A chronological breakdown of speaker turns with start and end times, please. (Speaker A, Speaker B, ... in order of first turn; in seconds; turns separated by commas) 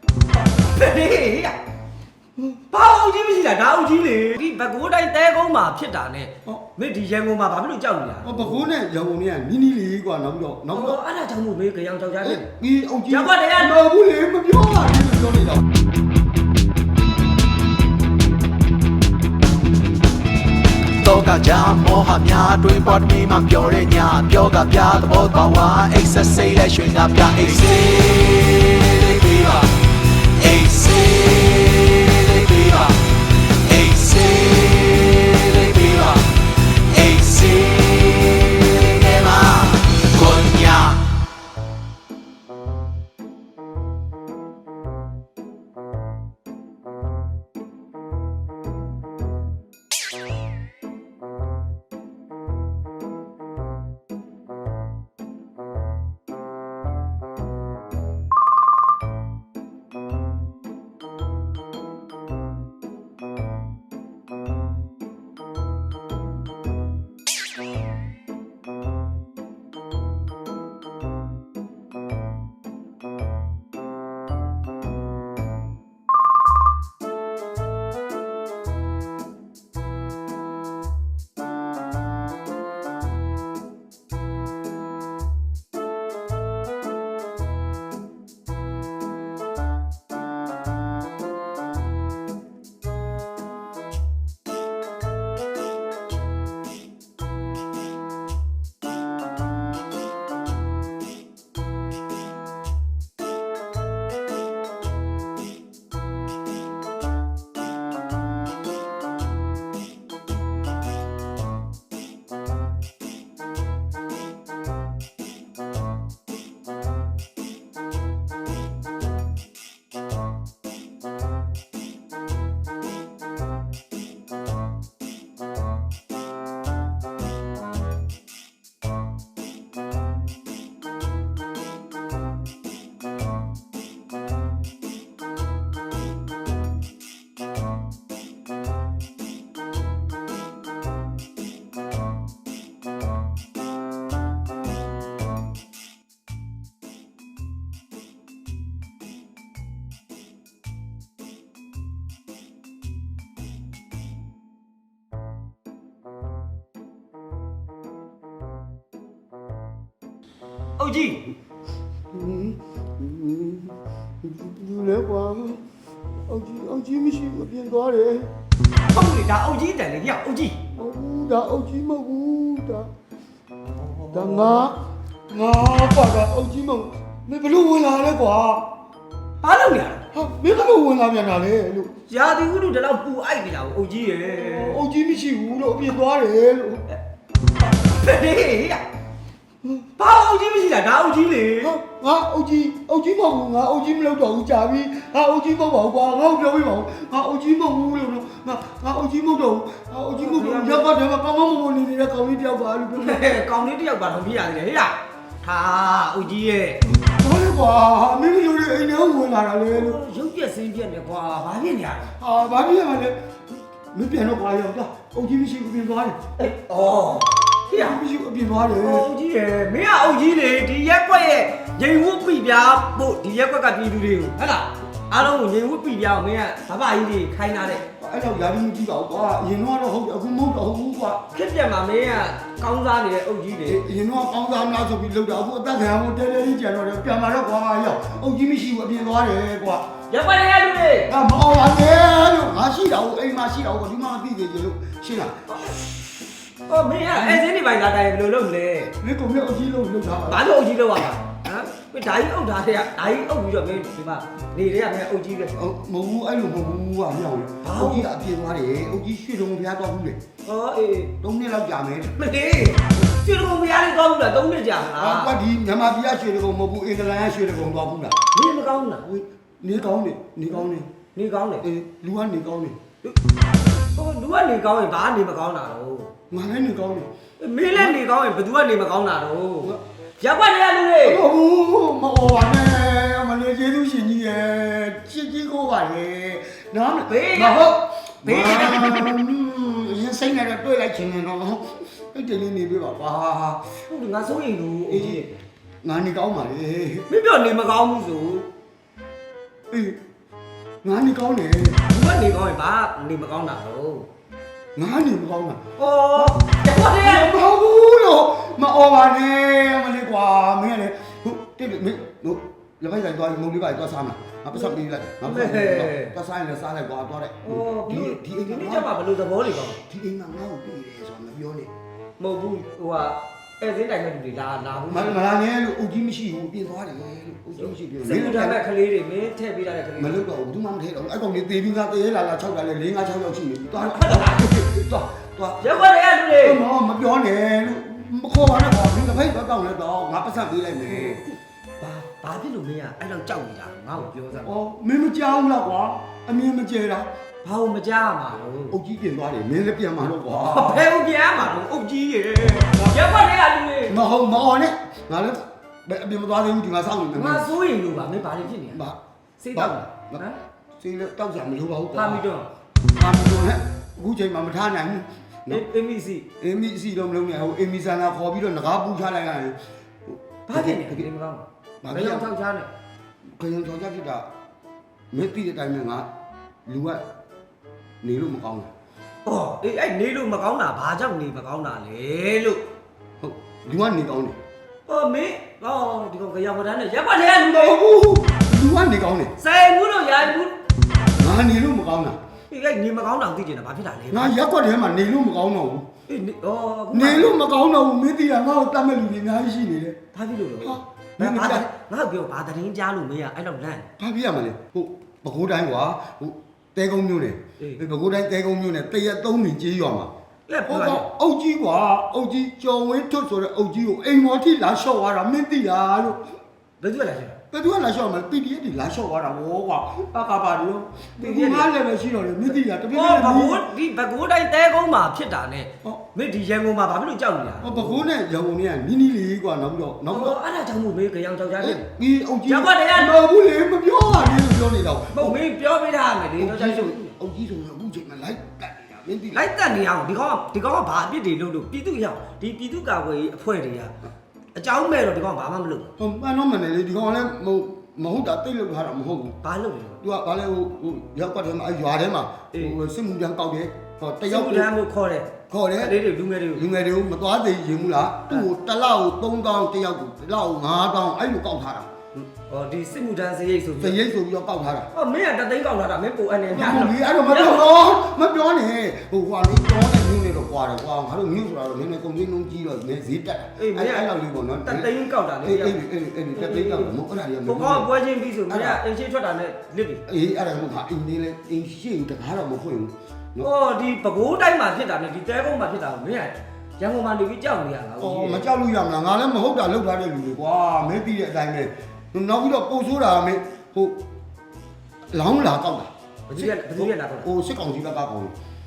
Speaker A: 0.5-1.6, Speaker A: 2.7-8.6, Speaker B: 8.2-11.0, Speaker A: 10.7-12.5, Speaker B: 12.2-15.6, Speaker A: 13.1-13.8, Speaker C: 21.0-41.0, Speaker A: 160.8-161.2, Speaker B: 162.1-165.6, Speaker B: 166.3-168.3, Speaker A: 168.9-170.6, Speaker B: 170.7-172.9, Speaker A: 173.8-174.6, Speaker B: 174.1-178.7, Speaker A: 179.4-180.0, Speaker B: 180.1-181.9, Speaker A: 182.1-184.8, Speaker B: 184.3-186.8, Speaker A: 187.6-188.8, Speaker A: 190.0-191.7, Speaker B: 191.6-203.4, Speaker A: 200.1-200.9, Speaker A: 203.0-206.8, Speaker B: 206.8-210.0, Speaker A: 209.7-212.1, Speaker B: 212.2-213.2, Speaker B: 213.9-216.2, Speaker A: 216.4-218.0, Speaker B: 217.7-219.1, Speaker A: 218.8-227.8, Speaker B: 228.0-231.2, Speaker A: 231.3-233.8, Speaker B: 233.6-239.9, Speaker A: 240.1-241.1, Speaker B: 241.1-245.9, Speaker A: 246.7-248.9, Speaker B: 247.1-247.4, Speaker B: 249.0-250.4, Speaker A: 250.3-255.5, Speaker B: 255.5-260.2, Speaker A: 257.6-258.1, Speaker A: 260.4-261.1, Speaker B: 261.2-262.1, Speaker A: 262.2-265.4, Speaker B: 265.0-268.1, Speaker A: 268.3-269.1, Speaker B: 269.0-270.9, Speaker A: 271.1-271.6, Speaker B: 271.6-272.8, Speaker A: 273.9-276.1, Speaker B: 276.3-277.1, Speaker A: 277.4-281.2, Speaker B: 277.7-278.0, Speaker B: 281.0-293.6, Speaker A: 287.1-287.7, Speaker A: 288.2-289.2, Speaker A: 293.9-295.4, Speaker B: 294.9-295.2, Speaker B: 295.8-297.1, Speaker A: 297.1-298.5, Speaker B: 299.7-300.0, Speaker B: 300.8-301.8, Speaker A: 301.9-304.1, Speaker B: 304.8-305.6, Speaker A: 305.8-307.4, Speaker B: 306.1-318.9, Speaker A: 314.6-316.1, Speaker A: 317.4-319.8, Speaker B: 319.8-321.7, Speaker A: 322.2-325.2, Speaker B: 324.9-328.6, Speaker A: 327.6-330.2, Speaker B: 330.0-335.8, Speaker A: 333.7-334.5, Speaker A: 335.6-336.6, Speaker B: 336.4-341.3, Speaker A: 340.9-341.2, Speaker A: 341.8-344.5, Speaker B: 344.4-347.1, Speaker A: 347.4-348.8, Speaker B: 348.7-350.9, Speaker A: 350.4-354.0, Speaker B: 352.6-353.0, Speaker B: 353.9-357.5, Speaker A: 357.1-358.8, Speaker B: 358.7-359.0, Speaker A: 359.4-360.4, Speaker B: 359.5-360.2, Speaker B: 360.8-362.2, Speaker A: 361.9-362.5, Speaker B: 362.8-365.6, Speaker A: 365.5-366.3, Speaker B: 366.4-369.6, Speaker B: 370.1-371.1, Speaker A: 370.5-372.7, Speaker B: 371.8-372.3, Speaker B: 373.4-374.2, Speaker B: 375.1-376.1, Speaker B: 376.6-377.0, Speaker B: 378.0-378.7, Speaker A: 379.2-382.6, Speaker B: 383.2-384.4, Speaker A: 384.9-387.8, Speaker B: 387.4-389.3, Speaker A: 389.4-390.6, Speaker B: 391.1-392.2, Speaker A: 392.5-394.4, Speaker B: 394.1-395.9, Speaker A: 396.1-397.4, Speaker B: 396.9-400.0, Speaker A: 400.1-403.9, Speaker B: 400.6-401.7, Speaker B: 404.0-410.1, Speaker A: 410.5-411.1, Speaker B: 410.7-416.2, Speaker A: 416.8-417.4, Speaker B: 417.5-423.7, Speaker A: 421.2-421.7, Speaker A: 422.9-428.0, Speaker B: 427.6-430.4, Speaker A: 430.1-431.9, Speaker B: 431.6-435.4, Speaker A: 432.4-433.2, Speaker A: 435.1-437.1, Speaker B: 436.4-439.4, Speaker A: 439.3-443.9, Speaker A: 444.5-445.9, Speaker B: 446.0-449.4, Speaker A: 449.4-450.0, Speaker B: 450.0-454.7, Speaker A: 452.5-452.8, Speaker A: 454.3-456.6, Speaker B: 455.5-456.0, Speaker B: 456.5-462.2, Speaker A: 462.5-464.0, Speaker B: 463.8-464.9, Speaker A: 464.9-467.7, Speaker B: 466.5-474.9, Speaker A: 473.6-474.1, Speaker A: 474.6-475.8, Speaker B: 475.4-477.9, Speaker A: 476.3-476.9, Speaker A: 477.4-480.0, Speaker B: 478.5-478.8, Speaker B: 480.1-483.5, Speaker A: 483.4-488.5, Speaker B: 488.0-494.0, Speaker B: 495.1-498.3, Speaker A: 496.3-497.3